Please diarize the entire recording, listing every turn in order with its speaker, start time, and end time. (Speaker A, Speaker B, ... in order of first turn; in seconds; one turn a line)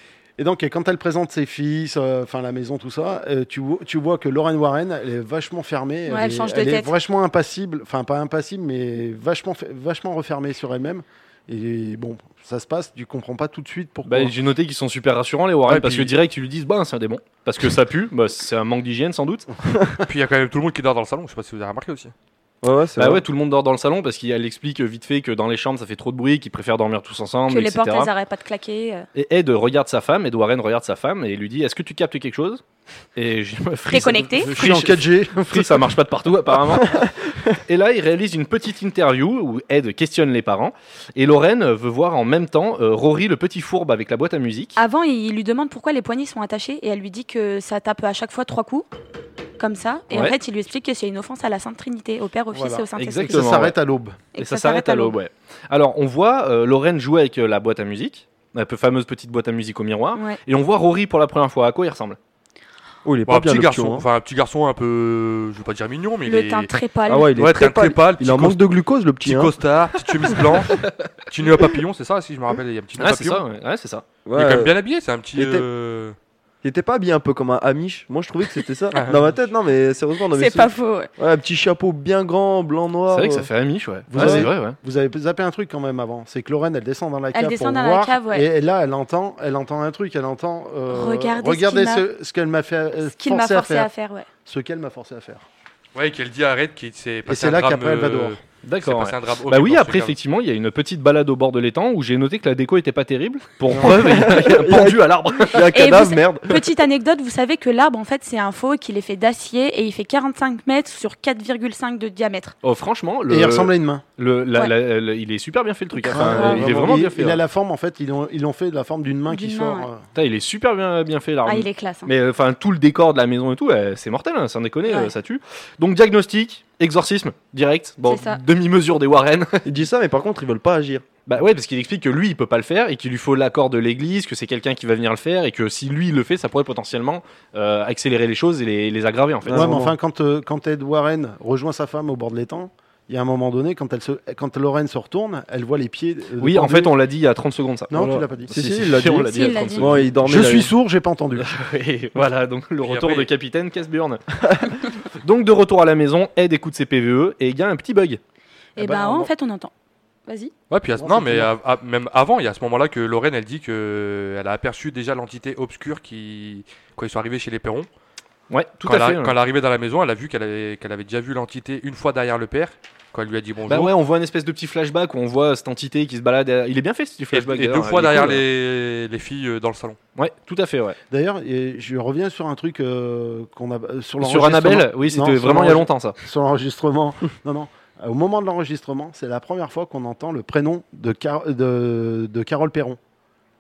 Speaker A: 0.4-14.3
Speaker B: 6.0-6.9
Speaker C: 14.0-19.5
Speaker D: 15.7-16.1
Speaker D: 20.1-22.1
Speaker E: 22.6-23.2
Speaker C: 23.0-28.1
Speaker B: 27.5-29.1
Speaker C: 29.1-32.6
Speaker C: 33.1-44.8
Speaker B: 33.9-34.5
Speaker A: 34.4-35.8
Speaker E: 36.8-37.4
Speaker B: 44.8-48.9
Speaker B: 49.6-53.7
Speaker C: 50.1-50.4
Speaker A: 52.5-54.2
Speaker C: 53.0-53.8
Speaker B: 54.3-55.1
Speaker C: 54.4-62.2
Speaker E: 63.0-64.0
Speaker D: 63.3-66.8
Speaker B: 66.2-67.3
Speaker E: 67.1-69.5
Speaker D: 67.3-68.6
Speaker D: 69.2-73.4
Speaker C: 70.5-71.1
Speaker C: 73.0-74.0
Speaker E: 74.2-74.7
Speaker D: 74.3-76.2
Speaker E: 75.3-75.7
Speaker E: 76.6-83.5
Speaker D: 78.9-79.2
Speaker B: 80.3-81.1
Speaker C: 83.1-84.8
Speaker A: 84.1-93.9
Speaker E: 84.2-84.5
Speaker B: 87.3-88.5
Speaker B: 90.9-92.0
Speaker B: 93.1-94.3
Speaker A: 94.5-95.4
Speaker D: 95.9-100.2
Speaker A: 97.2-98.4
Speaker C: 98.6-105.7
Speaker E: 103.7-106.6
Speaker B: 105.5-112.5
Speaker C: 112.6-117.4
Speaker A: 113.3-114.0
Speaker B: 116.0-116.6
Speaker A: 116.1-120.0
Speaker B: 119.3-119.9
Speaker C: 120.1-129.7
Speaker B: 121.4-122.1
Speaker B: 124.8-125.1
Speaker B: 128.0-128.4
Speaker E: 129.6-131.0
Speaker C: 131.2-139.7
Speaker E: 139.4-139.9
Speaker A: 139.5-146.9
Speaker C: 146.4-150.2
Speaker A: 147.9-148.5
Speaker E: 147.9-150.7
Speaker B: 149.2-150.0
Speaker A: 150.2-151.6
Speaker C: 151.4-158.2
Speaker D: 152.8-153.3
Speaker B: 158.8-159.7
Speaker A: 158.8-159.3
Speaker B: 160.3-160.5
Speaker D: 160.7-167.9
Speaker A: 161.0-161.5
Speaker C: 168.5-169.3
Speaker D: 168.8-173.9
Speaker C: 173.7-178.4
Speaker D: 177.3-180.0
Speaker C: 180.2-181.0
Speaker A: 181.1-193.0
Speaker C: 184.2-186.2